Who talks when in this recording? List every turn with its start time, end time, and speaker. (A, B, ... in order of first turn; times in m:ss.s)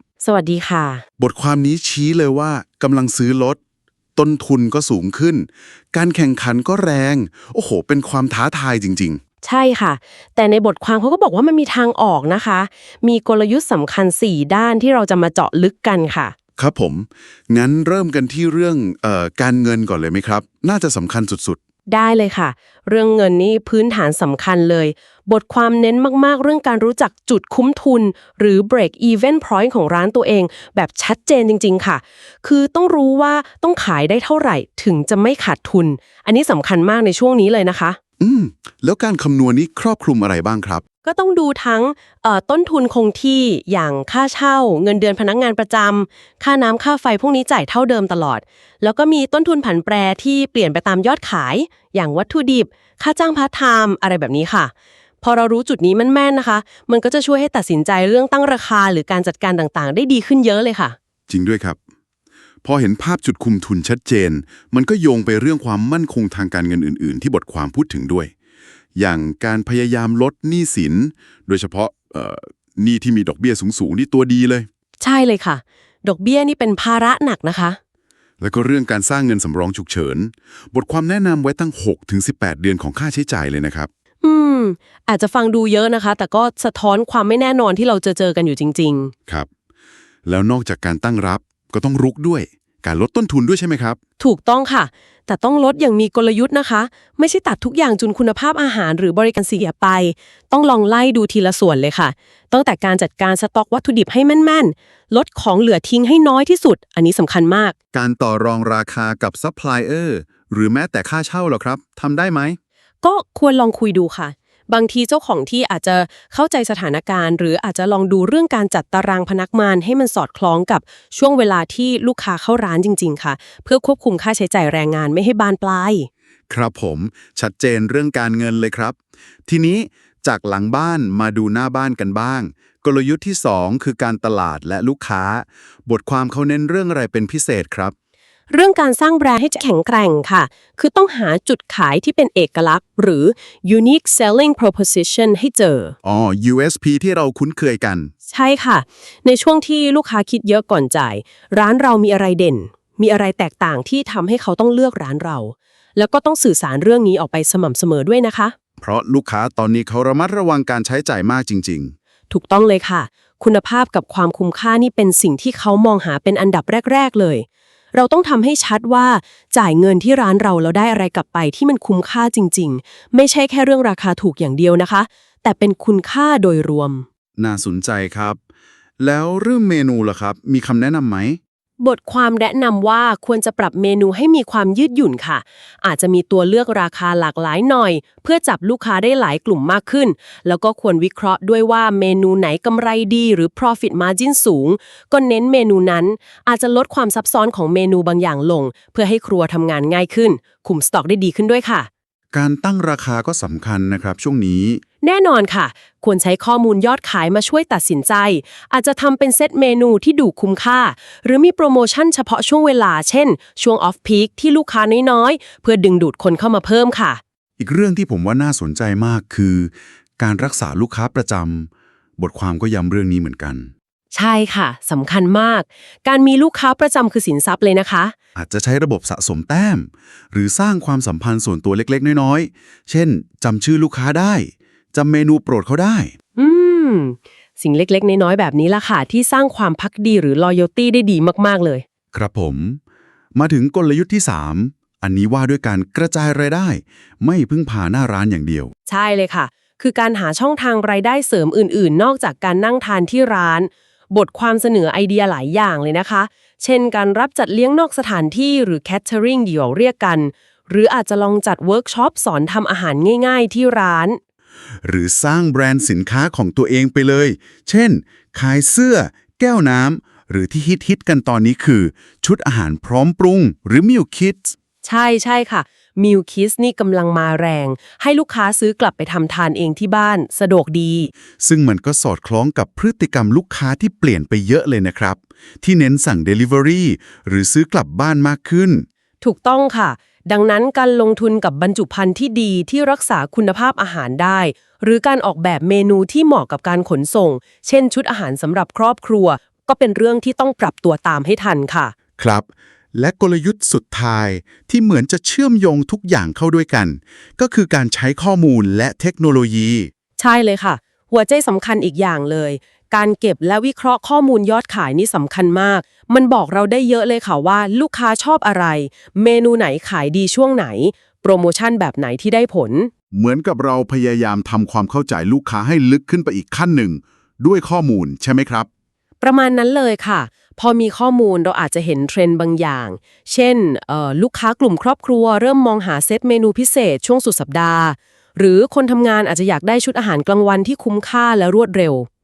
0:00.2-0:01.0 A
0:01.2-0:03.6 B
0:04.2-0:09.2 B
0:09.4-0:16.4 A
0:16.6-0:21.6 B
0:21.9-0:38.0 A
0:38.2-0:40.8 B
0:41.0-1:01.0 A
1:01.3-1:01.8 B
1:02.6-1:08.3 B
1:09.0-1:14.7 B
1:15.0-1:17.8 A
1:18.4-1:23.9 B
1:24.2-1:29.1 A
1:30.2-1:34.0 B
1:34.2-1:47.8 A
1:47.9-1:52.6 B
1:53.0-2:06.1 A
2:06.5-2:09.0 B
2:09.5-2:17.9 B
2:18.5-2:26.0 A
2:26.0-2:28.1 B
2:28.3-2:38.6 A
2:38.8-2:41.9 B
2:42.3-2:57.1 A
2:57.4-2:58.4 B
2:59.0-3:01.4 B
3:01.8-3:21.9 A
3:22.3-3:24.8 B
3:25.0-3:37.2 A
3:37.6-3:43.7 B
3:44.1-3:48.1 A
3:48.4-3:56.1 B
3:56.4-4:01.8 A
4:02.1-4:02.8 B
4:03.4-4:08.7 B
4:08.9-4:24.2 A
4:24.8-4:34.6 B
4:34.8-4:41.1 A
4:41.4-4:48.9 B
4:49.2-5:02.0 A
5:02.2-5:09.9 B
5:10.2-5:22.9 A
5:23.1-5:28.7 B
5:29.2-5:42.1 A